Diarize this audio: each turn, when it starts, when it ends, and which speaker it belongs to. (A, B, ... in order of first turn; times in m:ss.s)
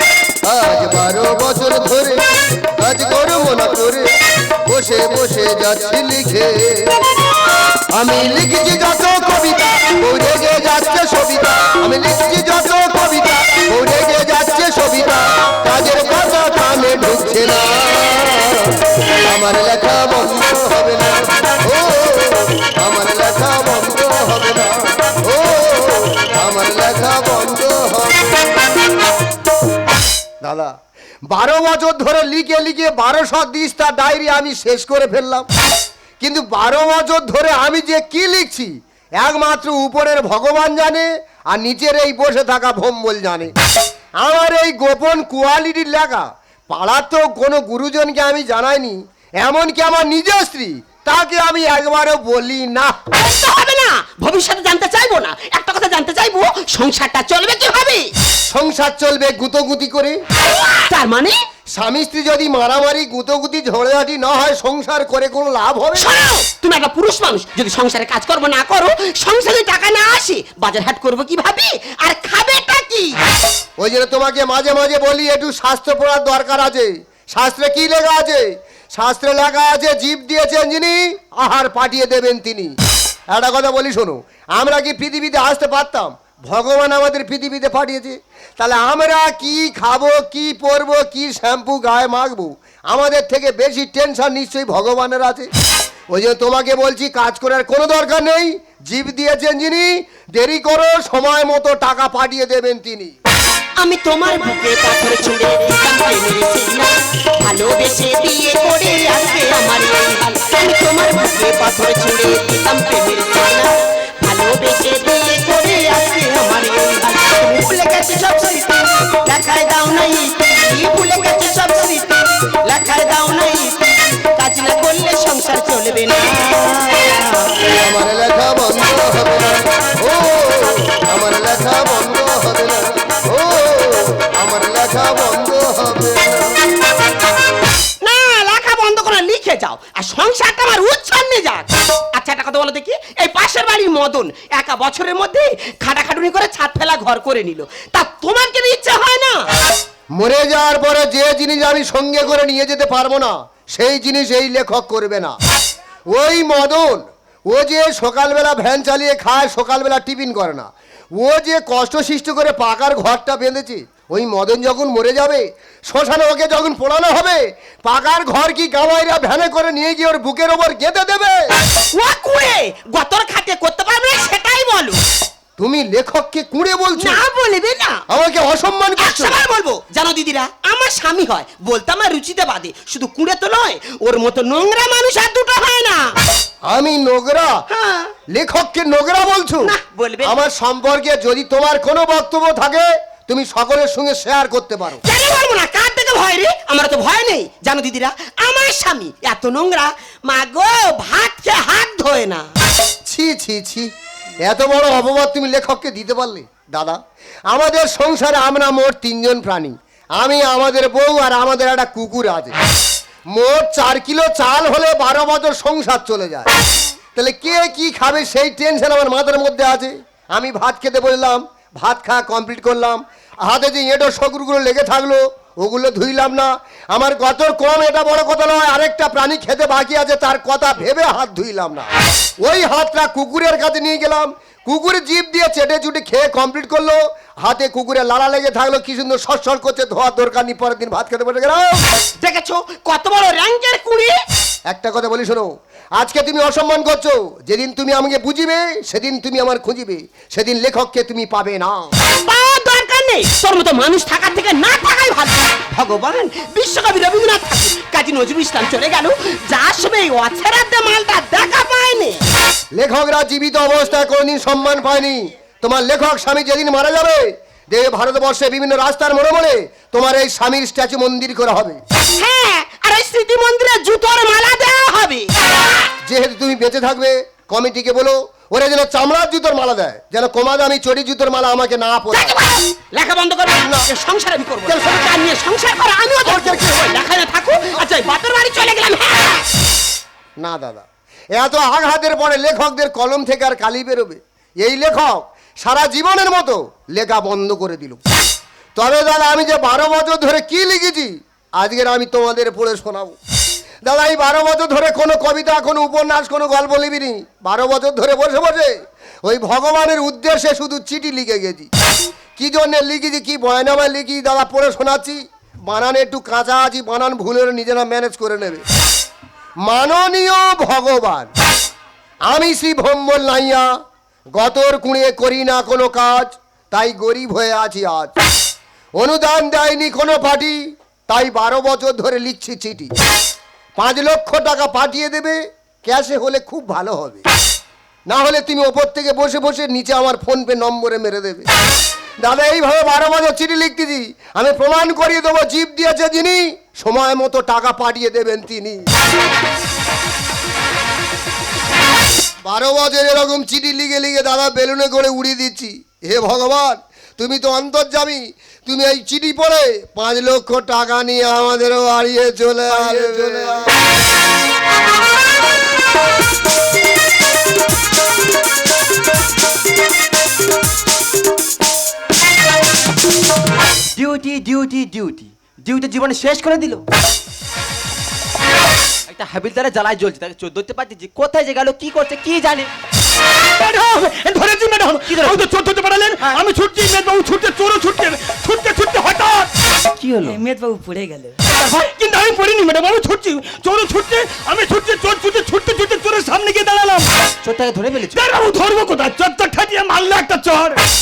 0:00.4-0:04.1 A
0:04.7-0:07.1 A
0:08.0-0:28.5 A
0:30.4-0:30.7 A
0:31.3-0:35.5 A
0:36.2-0:43.5 A
0:44.2-0:53.0 A
0:53.1-0:58.1 B
0:58.5-1:00.2 A
1:00.4-1:01.4 B
1:01.8-1:06.1 A
1:06.0-1:13.2 B
1:13.8-1:22.7 A
1:23.3-1:35.5 A
1:36.1-1:43.1 A
1:43.8-2:07.7 B
2:07.7-2:16.6 A
2:18.0-2:29.5 B
2:30.2-2:35.4 A
2:36.1-2:51.4 A
2:51.9-2:55.0 B
2:55.6-2:57.2 A
2:57.0-2:58.0 B
2:58.1-2:59.4 A
2:59.0-3:06.1 B
3:06.7-3:07.6 A
3:07.7-3:08.1 B
3:08.3-3:09.7 A
3:09.6-3:10.4 B
3:10.2-3:15.0 A
3:15.0-3:22.5 B
3:23.1-3:23.9 A
3:24.4-3:27.0 A
3:27.5-3:32.6 A
3:33.3-3:36.5 A
3:37.2-3:51.9 A
3:52.4-4:01.8 A
4:02.2-4:04.2 B
4:04.7-4:11.9 A
4:12.1-4:22.2 B
4:22.8-4:31.8 A
4:32.2-4:35.3 B
4:36.0-4:42.4 A
4:42.1-4:49.5 B
4:43.6-4:43.9 A
4:46.2-4:46.6 A
4:50.4-4:58.0 A
4:58.8-5:03.2 A
5:03.8-5:11.7 A
5:12.4-5:18.6 A
5:19.6-5:21.3 A
5:22.3-5:23.7 A
5:24.4-5:28.1 A
5:29.0-5:30.6 A
5:31.1-5:32.9 A
5:33.8-5:37.2 A
5:38.1-5:41.5 A
5:42.2-5:48.8 A
5:52.4-6:03.7 A
6:14.0-6:16.8 C
6:19.1-6:22.7 C
6:23.6-6:29.5 D
6:25.1-6:25.4 C
6:30.0-6:30.4 C
6:30.2-6:37.1 D
6:37.4-6:38.2 C
6:38.2-6:40.8 D